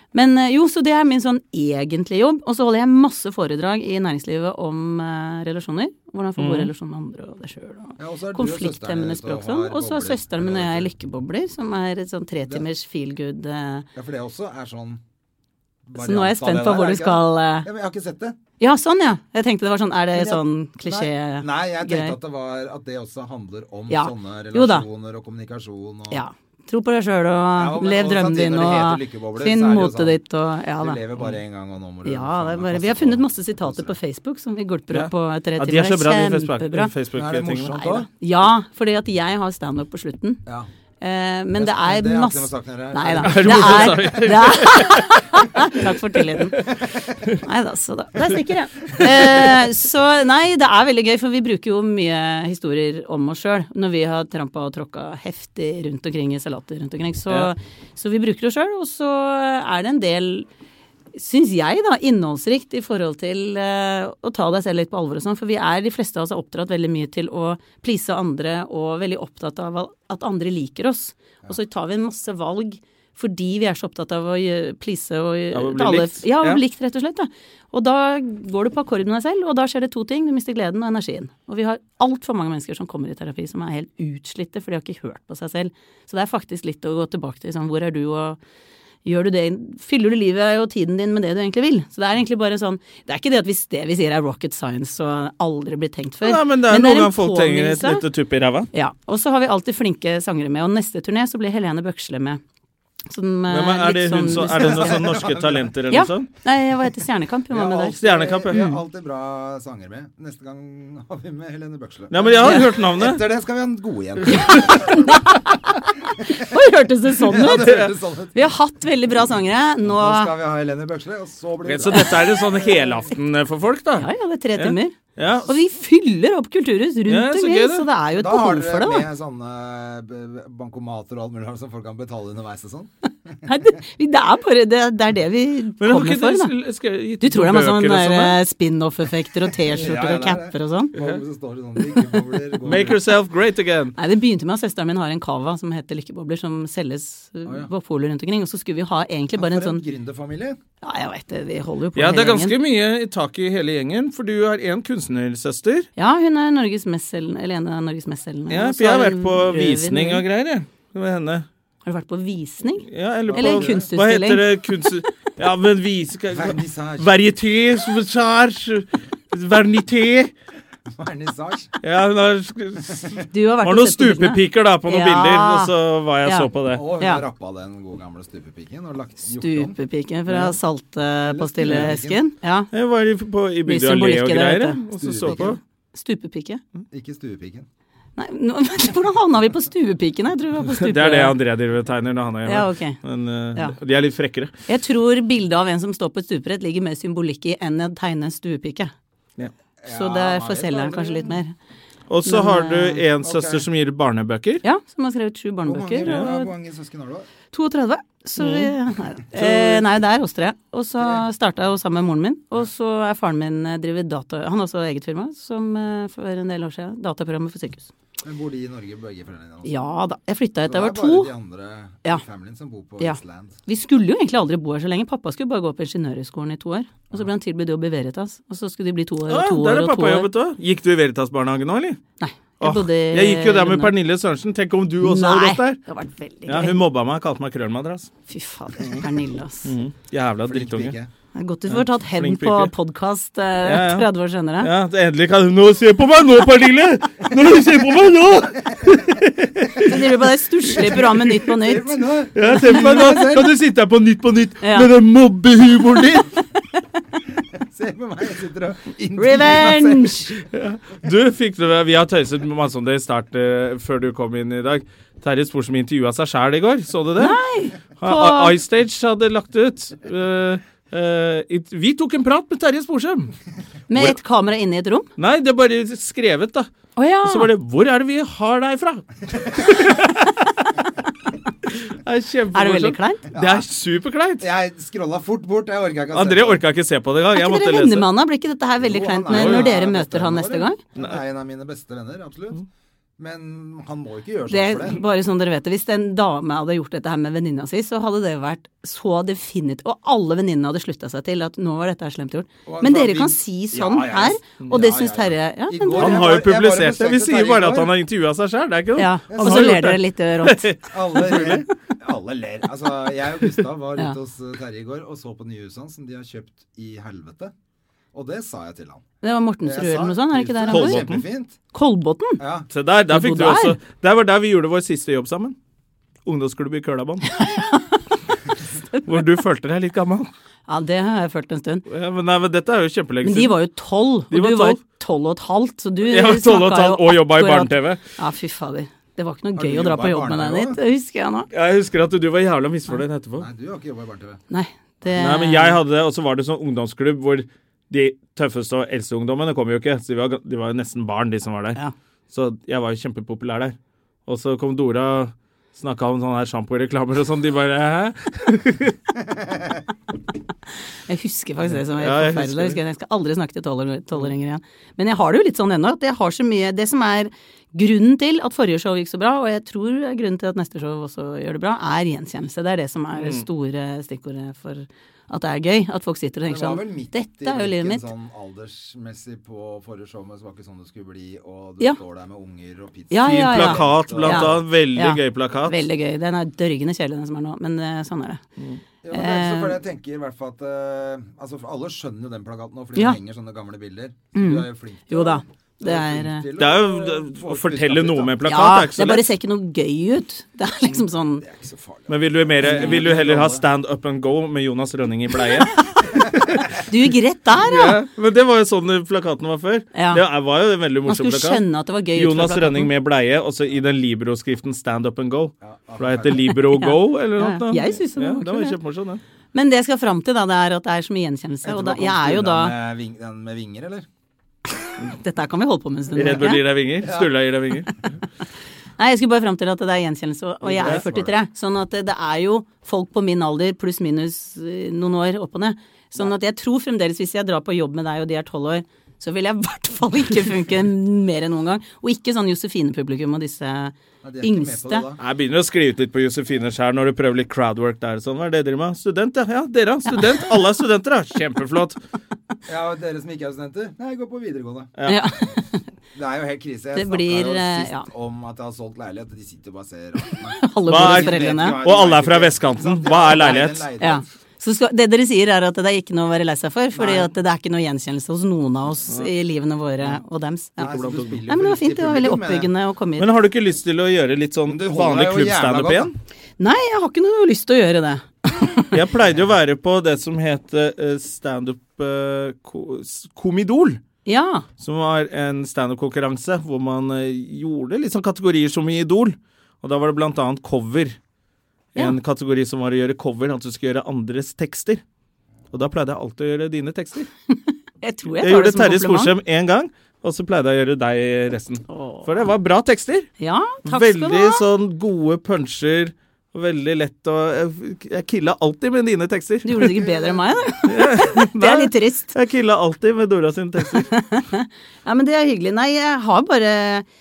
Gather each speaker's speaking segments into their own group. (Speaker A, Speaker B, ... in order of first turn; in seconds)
Speaker A: 0.1-13.9, 16.0-17.7, 18.6-22.2, 23.9-24.9, 26.1-31.0, 32.0-36.9, 37.8-40.4, 41.0-46.6, 47.4-60.5, 61.1-88.4, 89.0-98.0, 98.7-102.4, 103.1-105.0, 105.9-108.8, 112.4-112.7, 114.4-115.7, 116.3-117.7, 118.3-120.3, 124.0-129.1, 133.4-136.5, 137.2-140.9, 144.0-149.8, 150.8-152.6, 156.0-160.2, 161.8-164.4, 173.3-175.7, 176.2-177.2, 179.3-182.7, 183.7-186.6, 188.2-191.3, 192.5-193.0, 194.7-198.9, 199.9-201.5, 202.2-203.0, 204.6-206.5, 207.5-217.9, 219.7-221.3, 223.0-230.3, 232.2-233.9, 235.0-236.8, 238.3-239.7, 241.3-244.7, 249.8-252.0, 254.6-254.9, 259.2-260.4, 267.2-268.6, 273.9-275.1, 277.0-277.5, 282.5-283.2, 287.3-290.8, 294.5-306.3, 309.0-310.7, 319.2-321.1, 321.7-322.4, 323.1-323.8, 327.3-328.0, 330.7-331.9, 333.2-341.5, 344.5-345.8, 361.1-378.1, 383.1-388.4, 389.1-389.8, 394.3-396.5, 398.4-401.4, 402.6-403.0, 406.9-408.0, 409.9-410.2, 411.1-412.9, 416.7-418.8, 419.5-422.7, 425.1-426.6, 429.0-445.1, 455.1-455.8, 456.9-458.1, 460.6-461.8, 464.0-473.3, 476.6-478.9, 484.3-484.7, 498.0-499.3, 501.9-502.3, 503.4-504.6, 509.6-512.4, 514.1-517.0
Speaker B: 6.4-6.7, 34.9-37.8, 43.2-45.2, 75.5-76.6, 96.2-98.7, 103.5-106.3, 108.0-108.6, 112.1-113.2, 114.3-114.7, 117.4-117.9, 121.7-125.5, 127.1-127.9, 135.8-138.4, 142.7-143.9, 152.0-155.9, 158.5-161.5, 162.9-170.3, 171.8-176.9, 181.7-181.9, 182.7-185.6, 190.7-194.5, 202.1-204.6, 206.1-206.3, 208.4-208.7, 209.3-209.8, 229.3-232.0, 232.6-235.8, 236.5-238.1, 239.7-241.0, 241.7-242.7, 243.6-244.1, 244.6-249.9, 250.7-251.0, 252.3-256.4, 260.5-267.4, 268.0-273.3, 275.2-276.7, 277.2-280.3, 281.8-284.5, 286.1-288.1, 289.3-289.7, 306.0-311.6, 320.7-321.2, 322.7-325.6, 326.2-327.3, 329.0-330.3, 331.9-333.6, 334.3-334.8, 336.1-338.0, 341.5-343.5, 345.1-351.8, 352.3-353.8, 354.3-359.0, 361.9-362.8, 373.1-373.4, 383.2-385.8, 396.6-399.3, 402.1-406.7, 407.6-411.6, 412.1-419.2, 426.1-427.9, 445.2-452.0, 455.0-455.3, 460.9-463.9, 470.9-471.4, 473.2-476.1, 478.9-484.0, 484.8-491.2, 491.9-495.0, 495.7-497.3, 498.4-503.3, 503.9-509.9, 510.9-514.1
Speaker C: 8.0-10.9, 13.9-15.0, 15.9-18.4, 20.1-26.2, 27.6-30.2, 30.8-34.0, 37.1-38.1, 41.5-44.3, 46.7-47.2, 104.5-105.7, 107.5-115.2, 116.2-116.5, 117.2-118.4, 119.8-122.7, 128.2-133.3, 139.6-143.0, 149.4-150.6, 163.3-163.9, 166.3-167.1, 170.9-171.7, 176.7-179.8, 181.2-182.2, 185.0-185.6, 186.9-187.7, 199.8-201.4, 203.2-203.6, 205.7-207.3, 218.2-219.8, 220.7-223.6, 240.5-241.1, 250.9-253.5, 257.6-260.3, 283.3-283.6, 284.4-286.6, 288.8-292.6, 293.2-295.0, 302.7-307.9, 309.3-309.8, 310.9-317.5, 318.1-319.0, 319.6-321.6, 322.4-322.7, 339.6-340.8, 343.4-344.4, 376.5-384.6, 389.0-398.4, 401.4-403.6, 415.6-416.5, 421.6-424.1, 427.0-427.3, 430.6-431.4, 444.2-445.2, 452.7-454.9, 456.1-464.3, 466.9-467.3, 470.8-472.7, 474.7-476.1, 510.0-510.4